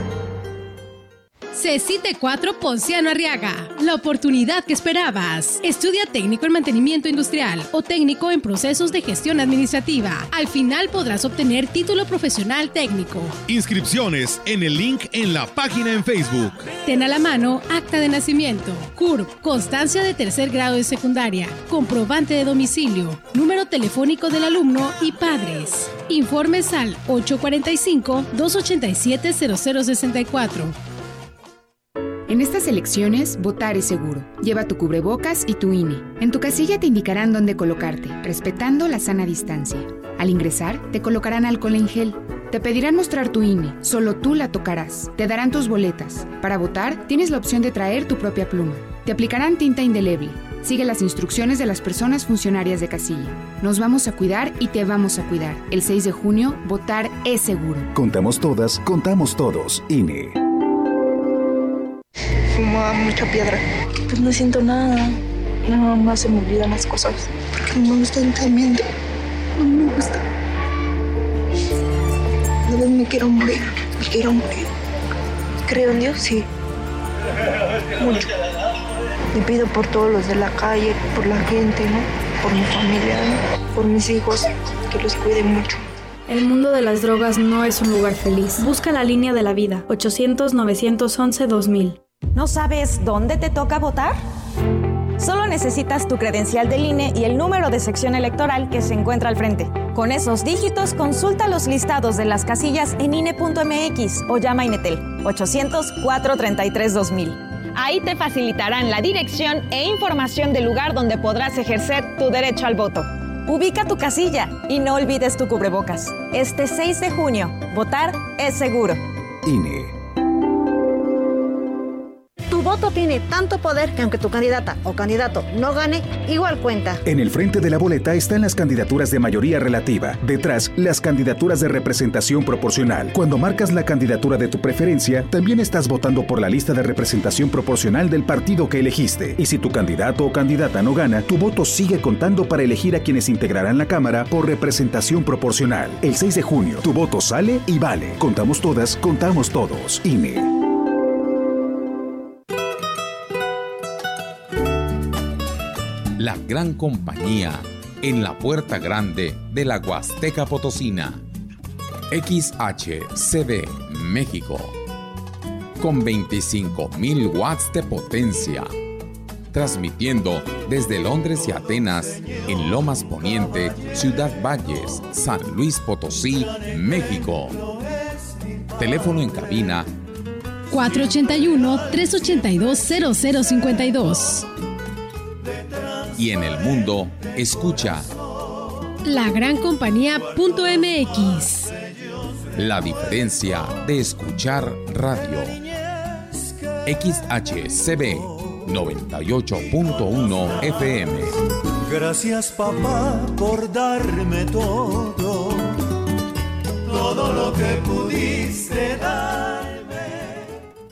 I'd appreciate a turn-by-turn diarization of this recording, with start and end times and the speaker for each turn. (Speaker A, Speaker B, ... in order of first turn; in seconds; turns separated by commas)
Speaker A: 1.5-13.4, Speaker B: 13.5-16.6, Speaker A: 16.8-30.8, Speaker C: 32.3-57.9, Speaker D: 58.0-60.4, Speaker E: 62.6-68.9, Speaker E: 69.6-70.2, Speaker E: 72.7-74.6, Speaker E: 75.7-76.5, Speaker E: 78.0-78.3, Speaker E: 79.3-85.8, Speaker F: 86.3-92.0, Speaker G: 92.3-94.2, Speaker G: 95.2-119.0, Speaker D: 119.5-120.0, Speaker H: 122.5-127.0, Speaker D: 127.1-150.5, Speaker I: 156.2-161.2, Speaker I: 162.1-164.8, Speaker I: 165.8-168.7, Speaker I: 169.5-177.6, Speaker I: 178.8-179.9, Speaker A: 180.7-184.5, Speaker I: 186.2-188.1, Speaker A: 189.0-191.7, Speaker I: 192.6-195.6, Speaker I: 196.8-201.4, Speaker J: 201.8-205.7, Speaker J: 206.9-209.8